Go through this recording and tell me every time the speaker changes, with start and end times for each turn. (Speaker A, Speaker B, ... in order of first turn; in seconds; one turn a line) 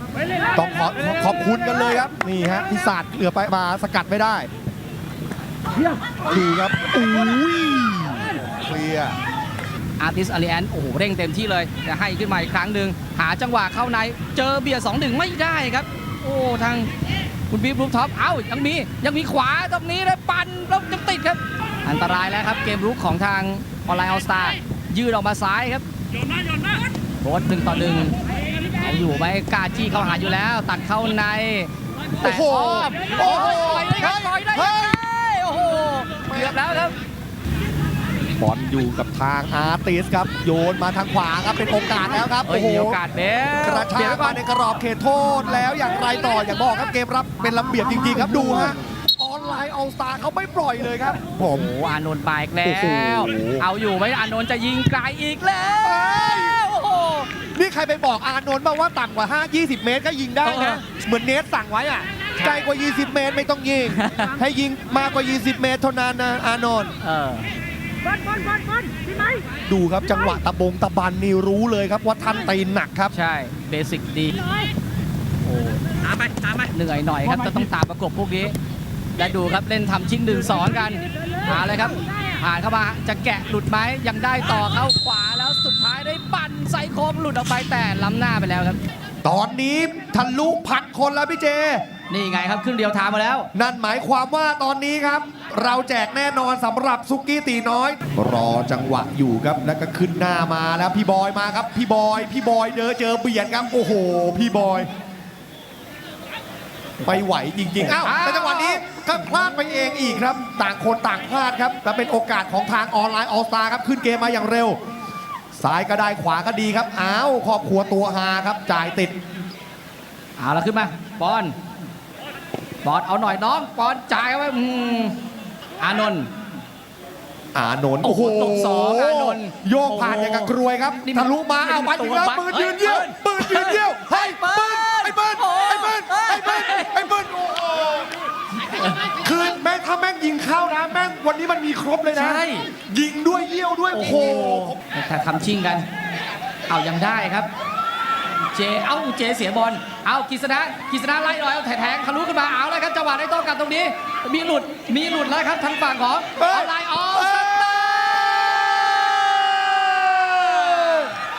Speaker A: 0.6-4.5
Speaker A: 6.3-9.2
Speaker B: 10.0-16.9
Speaker B: 17.5-25.9
Speaker B: 27.2-28.1
Speaker B: 28.8-31.7
Speaker B: 32.2-37.0
Speaker A: 32.2-34.9
Speaker A: 38.4-43.0
Speaker B: 42.5-44.4
Speaker A: 43.6-51.7
Speaker B: 51.4-57.3
Speaker A: 52.6-53.7
Speaker A: 55.8-56.6
Speaker A: 57.5-66.9
Speaker B: 60.4-60.9
Speaker B: 63.9-64.3
Speaker B: 67.0-67.5
Speaker A: 69.7-73.1
Speaker B: 73.1-74.4
Speaker B: 75.4-78.5
Speaker B: 79.2-88.8
Speaker A: 89.2-91.8
Speaker B: 92.1-93.5
Speaker A: 93.5-104.9
Speaker A: 107.0-114.8
Speaker B: 107.8-108.8
Speaker A: 115.5-119.2
Speaker B: 120.4-121.5
Speaker B: 122.8-125.2
Speaker B: 125.8-126.3
Speaker A: 127.5-138.1
Speaker B: 128.0-137.1
Speaker A: 139.2-144.8
Speaker B: 142.1-142.7
Speaker B: 143.9-145.8
Speaker B: 146.7-147.5
Speaker B: 148.5-158.3
Speaker A: 156.4-161.1